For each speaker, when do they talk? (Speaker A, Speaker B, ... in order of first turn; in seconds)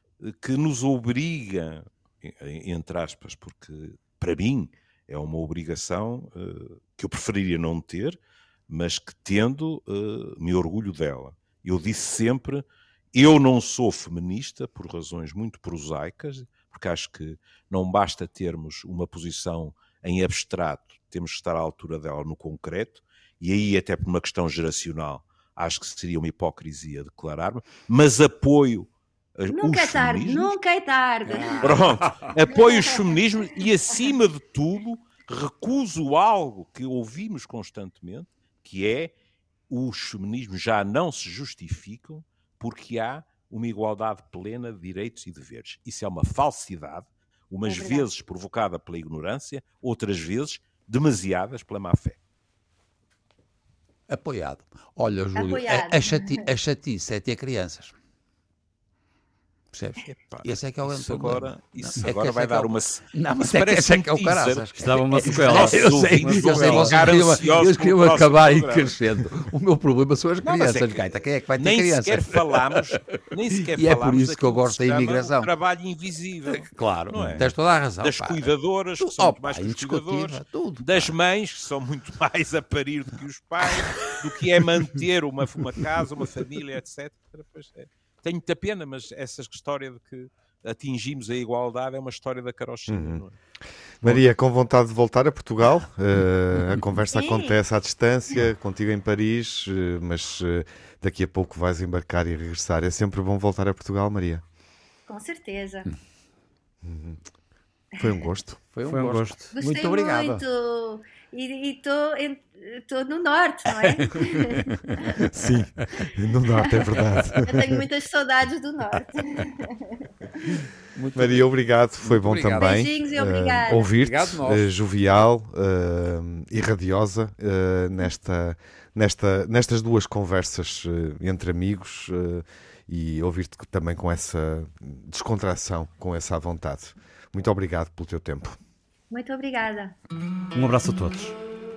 Speaker A: 0.2-30.5, 31.6-39.1, 39.7-52.2, 60.0-68.9, 70.4-93.3
Speaker B: 29.5-31.8, 47.6-48.1, 55.4-56.4, 97.1-97.6, 105.1-105.9, 109.5-114.6, 117.4-120.1, 122.6-123.9, 139.1-139.9
Speaker C: 32.1-32.3, 54.1-57.9, 59.7-73.2, 73.7-75.5, 76.5-81.1, 83.6-84.1, 108.7-110.4, 113.9-115.2, 120.9-122.9, 123.7-124.7
Speaker D: 64.8-67.3, 108.8-109.5, 140.5-141.3
Speaker E: 77.2-77.5, 92.9-93.2, 94.0-104.4, 106.8-107.2, 108.0-108.6, 115.2-117.8, 121.1-138.6